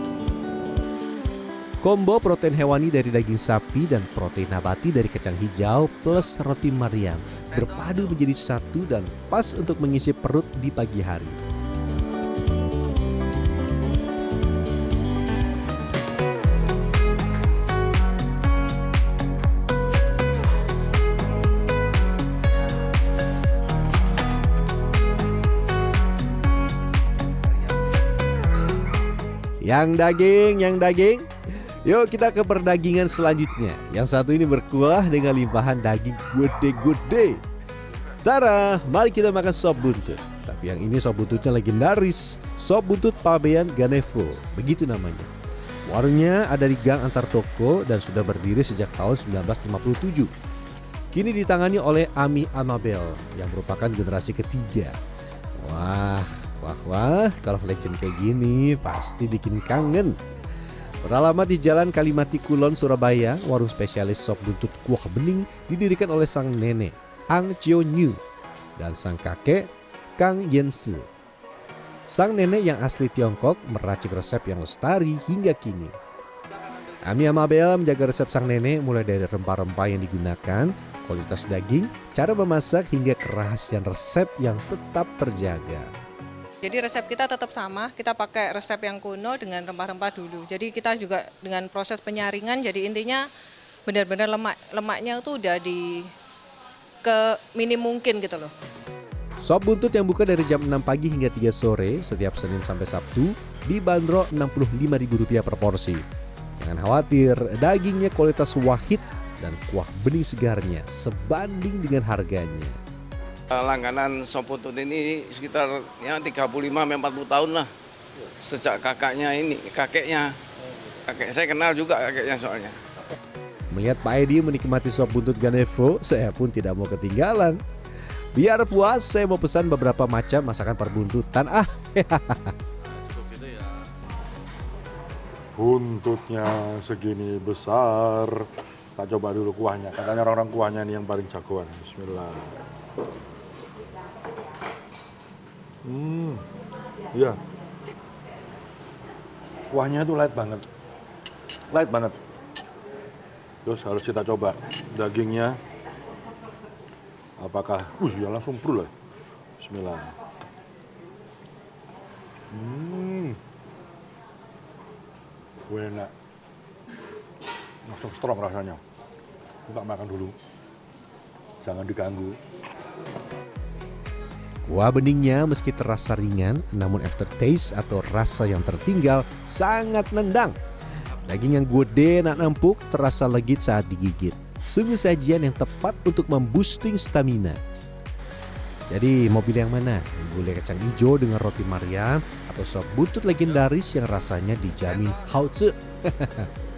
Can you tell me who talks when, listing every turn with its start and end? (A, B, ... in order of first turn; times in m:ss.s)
0:01.8-0:11.4 A
0:29.6-0:37.4 A
0:38.2-0:45.3 A
0:45.8-0:50.3 A
0:51.1-0:55.0 A
0:55.6-1:00.1 A
1:01.0-1:08.2 A
1:08.8-1:11.0 A
1:12.1-1:15.9 A
1:17.0-1:25.9 A
1:26.6-1:33.2 B
1:33.8-1:36.1 B
1:37.0-1:38.5 B
1:39.4-1:46.0 A
1:46.6-1:52.8 A
1:53.5-1:57.7 C
1:58.4-2:00.3 C
2:01.1-2:02.8 C
2:03.7-2:07.6 A
2:08.3-2:12.5 A
2:13.1-2:13.6 C
2:15.5-2:22.6 D
2:25.8-2:26.4 D
2:27.1-2:27.4 D
2:29.7-2:30.6 D
2:31.7-2:32.2 D
2:33.6-2:35.6 D
2:37.4-2:38.9 D
2:39.6-2:40.1 D
2:42.5-2:43.4 D
2:45.7-2:46.1 D
2:47.8-2:48.8 D
2:49.7-2:50.3 D
2:51.6-2:52.4 D
2:54.7-3:00.6 A
3:01.2-3:07.6 A
3:08.9-3:16.5 A